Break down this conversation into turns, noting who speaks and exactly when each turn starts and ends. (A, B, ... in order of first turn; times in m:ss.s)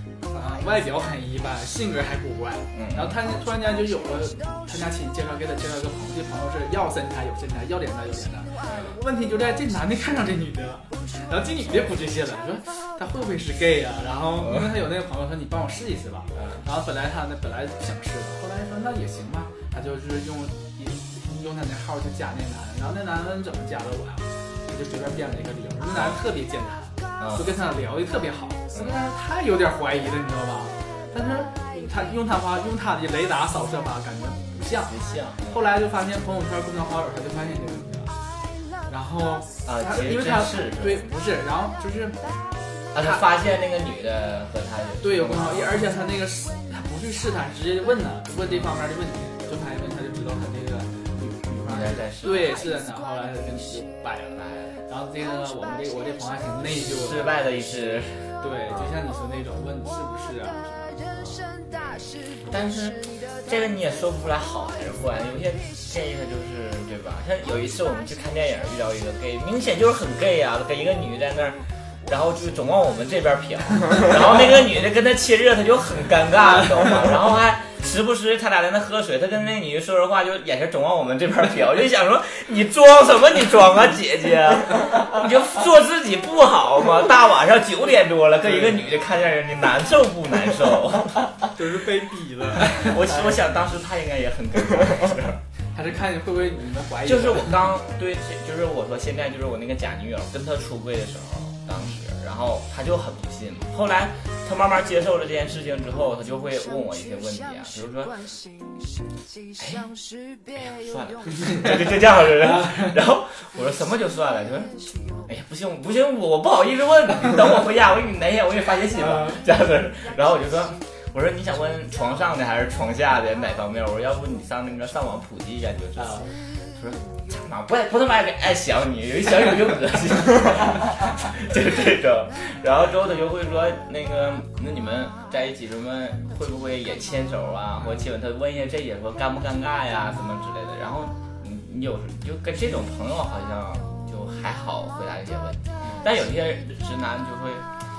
0:00.3-0:38.2 A
0:02.7-0:03.1 B
0:08.6-0:09.0 B
0:16.4-0:16.6 B
0:34.9-0:35.6 B
0:38.9-0:42.2 A
0:39.6-0:41.0 B
0:42.9-0:45.9 B
0:45.0-0:57.3 A
0:51.6-0:52.7 B
0:54.4-0:54.7 B
0:57.0-0:58.4 B
0:58.4-1:01.0 A
1:01.7-1:31.3 B
1:31.5-1:33.0 A
1:32.6-1:35.4 B
1:35.7-1:37.7 A
1:37.0-1:48.3 B
1:49.6-1:49.9 B
1:50.5-2:27.7 B
1:52.5-1:52.9 A
2:06.0-2:06.3 A